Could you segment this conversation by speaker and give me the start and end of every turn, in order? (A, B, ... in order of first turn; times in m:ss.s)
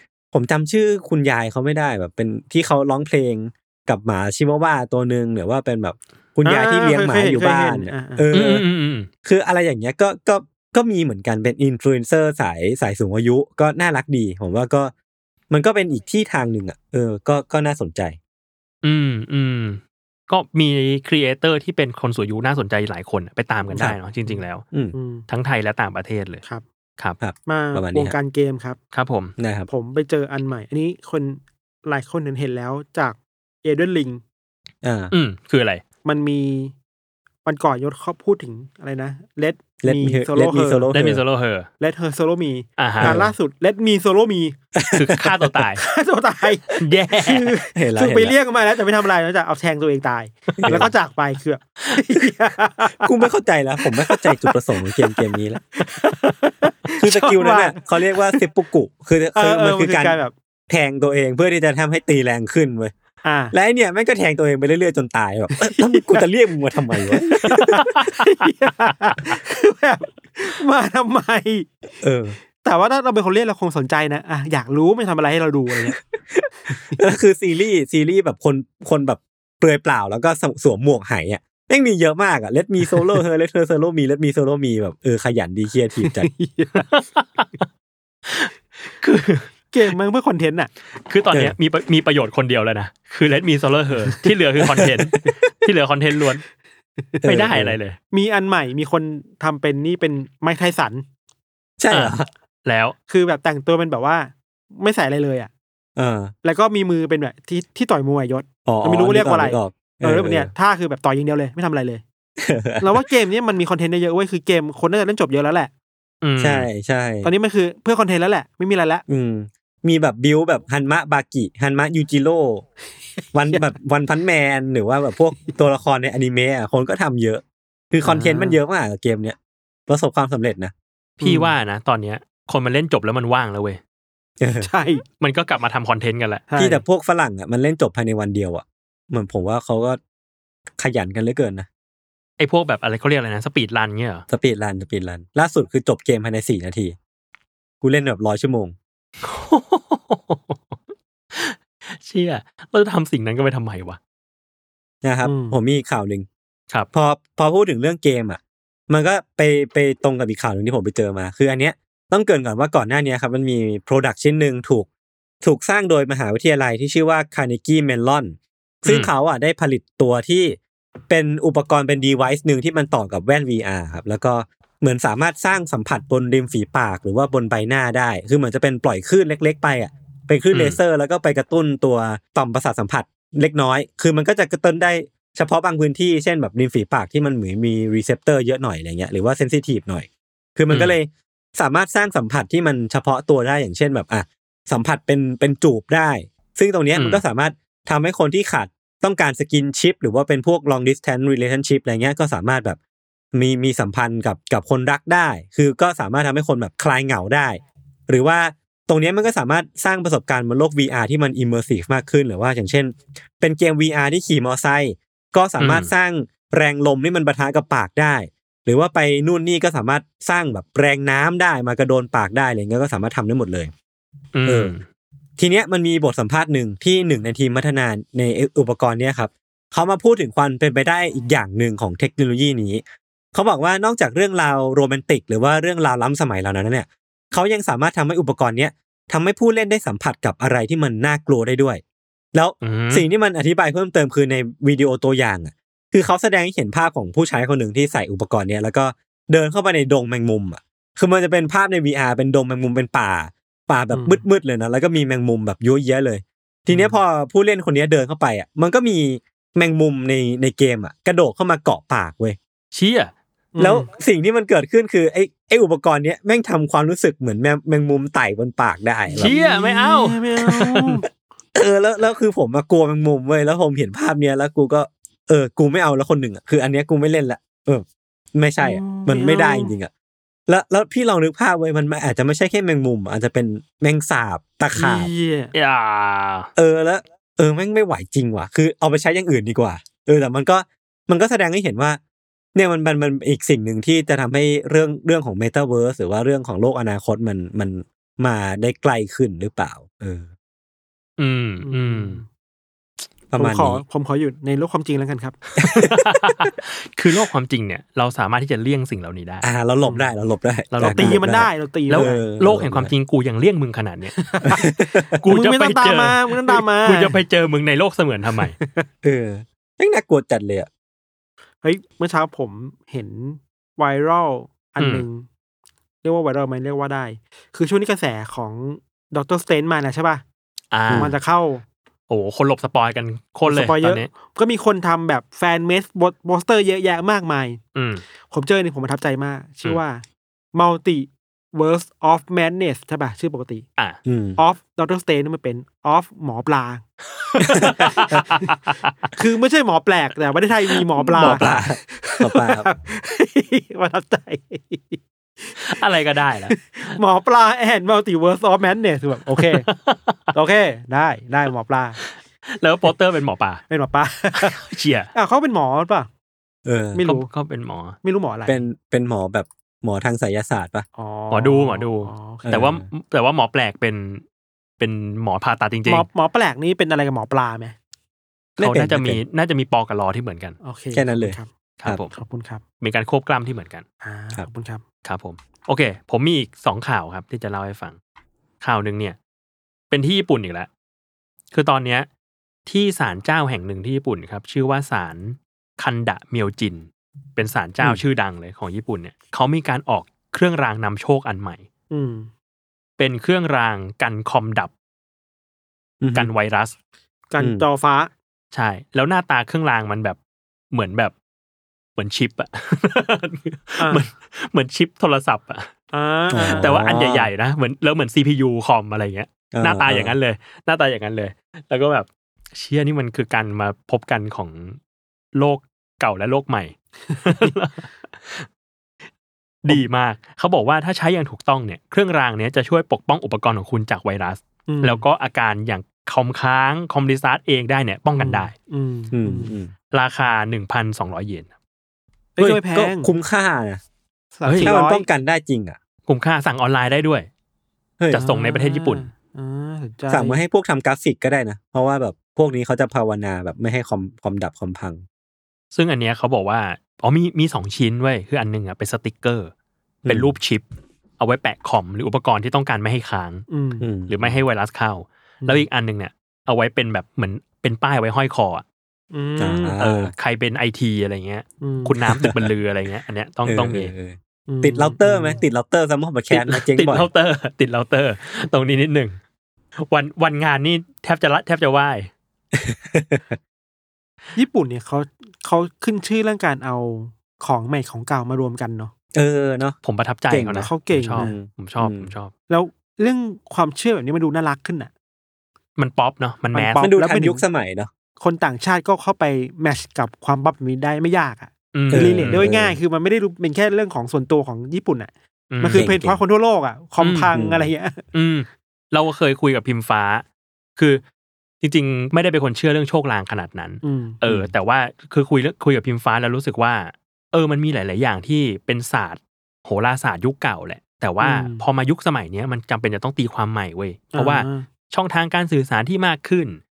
0:00.3-0:08.6 A
0:06.4-0:08.3 B
0:08.3-0:09.1 C
0:09.2-0:14.9 A
0:15.5-0:18.2 A
0:18.8-0:24.6 C
0:24.9-0:25.2 B
0:25.3-0:26.4 C
0:27.2-0:28.1 A
0:27.5-0:28.8 B
0:28.9-0:29.4 C
0:29.4-0:29.7 A
0:29.7-0:34.2 B
0:34.8-0:35.1 A
0:35.1-0:35.8 C
0:36.0-0:36.7 B
0:37.4-0:40.9 B
0:39.8-0:41.2 A
0:40.9-0:41.7 C
0:41.8-0:44.6 B
0:42.8-0:43.2 C
0:43.0-0:43.3 A
0:44.8-0:45.6 A
0:44.9-0:45.8 C
0:45.8-0:53.3 B
0:46.8-0:47.5 C
0:47.7-0:48.3 A
0:50.5-0:50.9 C
0:50.6-0:50.9 A
0:53.0-0:55.7 A
0:53.8-0:54.5 B
0:55.8-0:58.4 B
0:57.0-1:00.2 A
0:59.4-1:00.3 B
1:00.7-1:02.9 A
1:03.2-1:03.5 B
1:03.5-1:07.9 A
1:05.6-1:06.2 B
1:07.0-1:11.7 B
1:07.8-1:08.1 C
1:12.0-1:12.4 A
1:12.6-1:16.0 B
1:17.0-1:26.3 A
1:26.0-1:26.9 B
1:26.8-1:27.6 C
1:28.3-1:29.5 C
1:29.7-1:30.7 B
1:31.1-1:36.4 C
1:34.6-1:35.0 A
1:37.2-1:37.8 A
1:37.3-1:38.0 C
1:38.1-1:41.0 B
1:41.8-1:42.3 A
1:41.9-1:43.0 C
1:43.1-1:45.5 B
1:46.0-1:46.3 A
1:46.4-1:52.0 B
1:48.7-1:50.5 A
1:52.4-1:52.9 A
1:52.8-1:55.7 B
1:56.2-1:56.7 C
1:56.4-1:57.3 A
1:57.2-1:59.0 B
1:59.1-2:02.6 A
2:03.3-2:09.4 A
2:08.0-2:08.6 B
2:09.9-2:10.7 A
2:11.2-2:11.5 B
2:11.2-2:13.8 C
2:14.4-2:14.7 A
2:14.6-2:15.0 B
2:15.2-2:16.5 C
2:16.5-2:16.8 B
2:16.6-2:20.0 A
2:20.8-2:21.7 A
2:22.4-2:24.2 C
2:24.3-2:27.0 A
2:27.8-2:28.8 A
2:29.2-2:30.8 C
2:31.3-2:34.0 C
2:35.0-2:36.3 A
2:35.2-2:35.6 B
2:36.9-2:44.9 A
2:45.4-2:50.6 A
2:48.9-2:49.1 C
2:51.1-3:22.8 A
3:00.5-3:00.8 C
3:10.7-3:11.0 C
3:17.0-3:17.2 C
3:23.3-3:43.7 A
3:35.6-3:35.9 C
3:44.4-3:44.8 C
3:44.5-3:44.7 A
3:45.4-3:52.8 A
3:53.3-4:01.8 A
4:02.3-4:22.4 A
4:02.6-4:03.1 C
4:13.9-4:14.2 B
4:16.7-4:17.0 B
4:22.7-4:23.1 C
4:23.6-4:23.9 B
4:23.6-4:29.3 A
4:29.1-4:30.9 C
4:29.1-4:31.1 B
4:31.6-4:39.9 A
4:38.6-4:39.7 B
4:40.5-4:45.1 A
4:44.8-4:45.5 B
4:45.5-4:46.5 C
4:46.6-4:52.0 A
4:52.6-5:00.3 A
5:01.2-5:02.2 C
5:01.6-5:02.3 B
5:03.3-5:03.8 A
5:03.4-5:05.4 B
5:05.6-5:06.0 A
5:05.6-5:09.5 C
5:09.4-5:12.9 A
5:10.7-5:11.3 C
5:10.9-5:12.2 B
5:11.9-5:14.3 C
5:14.2-5:14.7 B
5:14.4-5:15.2 A
5:15.2-5:18.6 C
5:15.3-5:17.2 B
5:18.6-5:18.9 B
5:19.0-5:20.7 A
5:21.6-5:25.3 B
5:24.8-5:25.0 C
5:26.0-5:30.2 B
5:30.7-5:31.1 C
5:30.9-5:31.2 A
5:30.9-5:31.6 B
5:32.1-5:34.1 C
5:33.5-5:37.6 B
5:37.8-5:38.0 C
5:38.3-5:40.0 B
5:40.5-5:43.6 B
5:44.0-5:44.4 A
5:44.4-5:46.8 B
5:47.3-5:48.5 B
5:47.5-5:48.9 C
5:47.6-5:48.2 A
5:49.2-5:55.6 B
5:51.2-5:52.7 A
5:51.2-5:51.5 C
5:55.6-5:57.0 C
5:56.5-5:59.7 B
5:59.4-6:00.3 C
6:00.3-6:02.0 B
6:02.5-6:03.6 C
6:03.7-6:04.6 B
6:04.4-6:05.1 C
6:05.1-6:06.1 B
6:06.6-6:07.0 A
6:07.0-6:07.3 B
6:07.0-6:08.0 C
6:08.0-6:08.6 B
6:08.5-6:10.9 A
6:11.0-6:12.6 B
6:11.3-6:14.2 C
6:12.4-6:12.8 A
6:14.8-6:16.1 C
6:15.9-6:17.8 B
6:18.6-6:19.2 A
6:18.6-6:20.6 C
6:20.6-6:21.5 B
6:20.9-6:22.0 A
6:21.8-6:22.1 C
6:22.1-6:22.6 B
6:22.8-6:23.8 C
6:24.0-6:24.8 B
6:25.0-6:28.0 C
6:28.6-6:29.2 C
6:29.9-6:30.7 C
6:31.5-6:32.1 C
6:32.7-6:41.7 C
6:41.9-6:42.3 B
6:43.0-6:44.7 C
6:46.0-6:46.3 A
6:46.2-6:46.7 C
6:47.3-6:48.1 B
6:47.4-6:47.6 A
6:48.5-6:50.2 C
6:50.7-6:51.1 C
6:52.0-6:55.7 C
6:53.8-6:54.0 B
6:55.9-6:56.8 B
6:56.3-6:57.3 A
6:56.4-7:04.8 C
6:59.5-7:00.2 A
7:05.4-7:08.5 C
7:09.6-7:18.5 C
7:14.7-7:15.0 B
7:18.2-7:19.6 B
7:19.1-7:19.7 A
7:19.9-7:21.5 C
7:22.4-7:23.1 B
7:22.4-7:23.8 A
7:24.4-7:25.1 B
7:24.4-7:24.7 C
7:24.6-7:25.8 A
7:26.1-7:27.3 C
7:28.1-7:29.1 C
7:28.1-7:30.4 B
7:30.1-7:35.0 A
7:35.7-7:39.5 C
7:40.0-7:40.3 A
7:40.1-7:40.6 C
7:41.2-7:43.5 C
7:43.5-7:43.9 B
7:43.8-7:44.4 A
7:44.1-7:48.6 C
7:49.1-7:49.8 B
7:49.4-7:50.1 A
7:49.8-7:53.9 C
7:51.6-7:52.0 B
7:52.2-7:52.5 A
7:53.5-7:57.1 A
7:54.5-7:55.4 B
7:56.3-7:59.2 C
7:59.8-8:02.1 C
8:02.5-8:03.4 A
8:04.4-8:08.9 B
8:09.1-8:09.8 A
8:09.8-8:12.3 C
8:10.3-8:12.1 A
8:10.6-8:11.4 B
8:12.5-8:14.9 B
8:15.8-8:16.9 C
8:16.5-8:17.4 B
8:16.8-8:17.9 A
8:18.2-8:28.0 B
8:21.7-8:22.5 C
8:21.9-8:22.8 A
8:25.5-8:25.9 C
8:25.7-8:26.2 A
8:27.0-8:27.3 C
8:27.3-8:27.7 A
8:28.1-8:30.2 C
8:30.8-8:31.0 C
8:31.6-8:46.6 C
8:33.8-8:34.2 B
8:41.2-8:41.6 B
8:44.1-8:44.7 B